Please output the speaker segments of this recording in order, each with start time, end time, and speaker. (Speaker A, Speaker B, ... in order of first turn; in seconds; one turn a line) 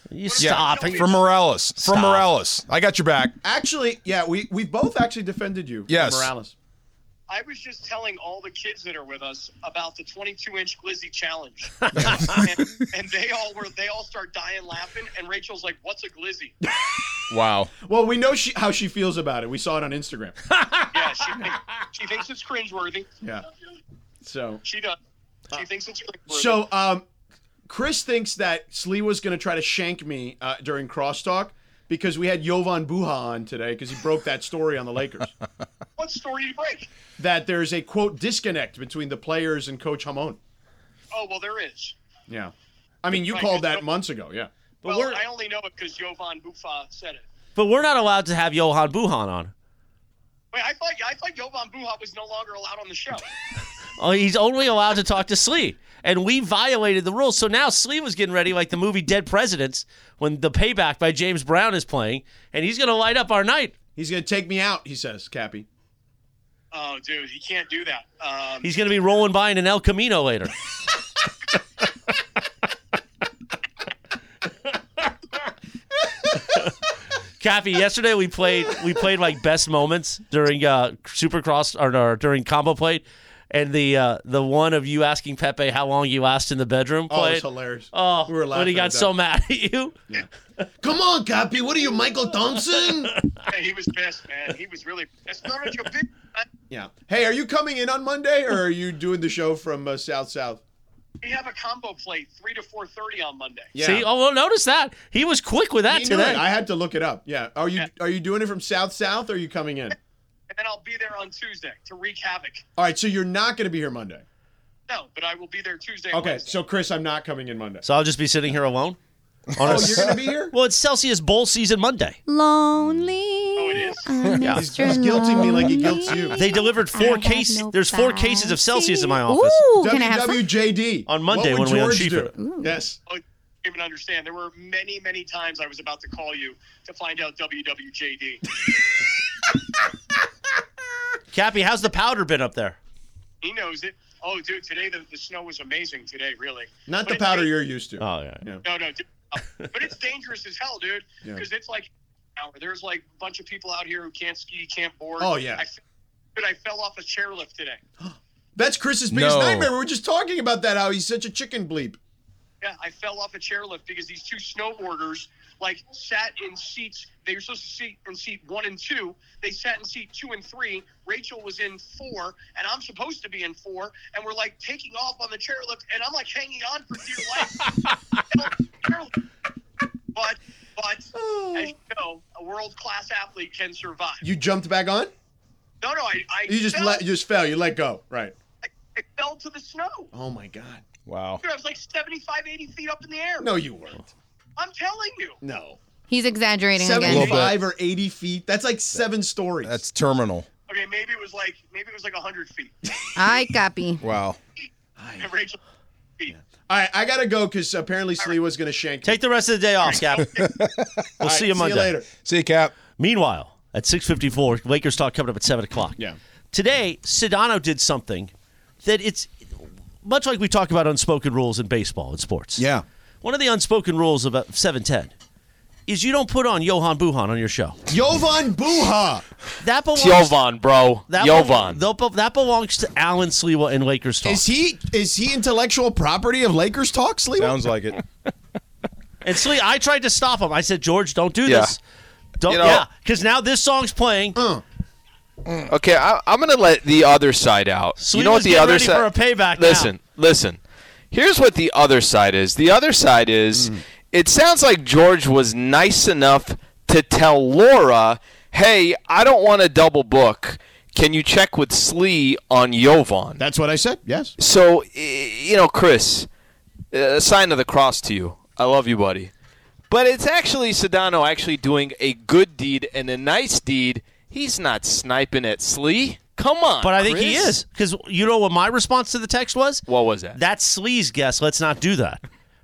Speaker A: 0.1-2.3
Speaker B: 0.2-1.3
Speaker C: 0.4-3.4
Speaker D: 3.4-6.5
Speaker C: 5.9-6.3
Speaker B: 7.3-16.6
Speaker A: 11.8-12.4
Speaker D: 11.9-12.4
Speaker D: 16.6-17.0
Speaker C: 17.3-17.7
Speaker D: 17.8-21.5
Speaker B: 20.9-23.1
Speaker D: 24.2-24.6
Speaker B: 24.6-25.0
Speaker B: 25.5-26.7
Speaker D: 26.3-27.1
Speaker D: 27.7-35.4
Speaker B: 36.0-36.9
Speaker D: 37.2-40.4
Speaker B: 41.1-42.0
Speaker D: 42.3-44.5
Speaker B: 43.1-44.0
Speaker A: 44.8-45.2
Speaker B: 44.9-47.2
Speaker A: 47.6-49.5
Speaker B: 50.5-53.3
Speaker A: 54.0-63.7
Speaker D: 64.0-65.7
Speaker B: 66.7-68.8
Speaker A: 68.6-70.5
Speaker A: 77.4-90.0
Speaker D: 87.1-89.1
Speaker D: 90.8-93.3
Speaker B: 93.5-96.5
Speaker D: 96.7-100.6
Speaker B: 101.2-103.7
Speaker D: 103.7-104.1
Speaker A: 103.8-106.5
Speaker D: 105.9-110.0
Speaker B: 110.5-112.7
Speaker D: 112.8-114.2
Speaker B: 114.9-116.5
Speaker D: 116.1-117.8
Speaker A: 117.8-119.0
Speaker A: 119.6-122.2
Speaker D: 119.6-120.5
Speaker C: 119.7-120.0
Speaker E: 122.3-130.5
Speaker B: 123.6-124.1
Speaker A: 124.3-124.7
Speaker D: 124.5-126.4
Speaker A: 126.3-129.7
Speaker D: 129.8-133.0
Speaker A: 131.1-132.3
Speaker E: 132.4-132.8
Speaker B: 133.1-138.4
Speaker A: 141.3-142.8
Speaker B: 143.4-147.5
Speaker D: 146.9-148.6
Speaker A: 148.0-148.4
Speaker B: 148.6-155.8
Speaker D: 155.2-155.6
Speaker B: 156.3-157.8
Speaker D: 158.0-162.0
Speaker C: 159.1-159.7
Speaker B: 162.6-177.7
Speaker B: 178.3-179.2
Speaker B: 180.1-184.3
Speaker D: 181.2-181.7
Speaker D: 184.2-185.1
Speaker B: 185.8-187.1
Speaker D: 186.5-188.4
Speaker B: 188.6-190.1
Speaker D: 190.1-190.8
Speaker C: 191.1-191.4
Speaker B: 191.4-193.6
Speaker D: 193.4-194.1
Speaker B: 194.6-195.4
Speaker D: 195.4-195.8
Speaker E: 196.1-197.5
Speaker D: 196.7-199.8
Speaker C: 197.0-197.5
Speaker C: 199.6-200.5
Speaker B: 200.7-202.8
Speaker E: 203.2-204.0
Speaker C: 204.0-204.4
Speaker D: 205.0-205.3
Speaker B: 205.2-205.6
Speaker D: 206.3-209.2
Speaker A: 209.0-210.3
Speaker B: 209.8-210.6
Speaker C: 210.3-211.1
Speaker A: 211.2-211.9
Speaker D: 211.2-212.1
Speaker C: 212.2-212.8
Speaker A: 213.0-216.0
Speaker A: 216.5-218.3
Speaker A: 218.8-222.7
Speaker D: 222.6-222.8
Speaker A: 223.2-225.1
Speaker A: 225.9-227.8
Speaker D: 227.9-229.3
Speaker A: 229.6-230.4
Speaker F: 229.9-231.8
Speaker A: 231.1-234.4
Speaker D: 234.2-237.6
Speaker C: 237.4-238.0
Speaker A: 239.2-241.8
Speaker F: 241.4-241.8
Speaker A: 242.4-244.4
Speaker F: 242.5-242.9
Speaker D: 244.4-244.6
Speaker F: 245.7-250.6
Speaker A: 248.0-249.9
Speaker F: 251.1-263.4
Speaker D: 263.4-264.3
Speaker F: 264.4-266.3
Speaker F: 266.9-269.3
Speaker F: 269.9-277.6
Speaker A: 276.8-282.2
Speaker F: 279.9-280.4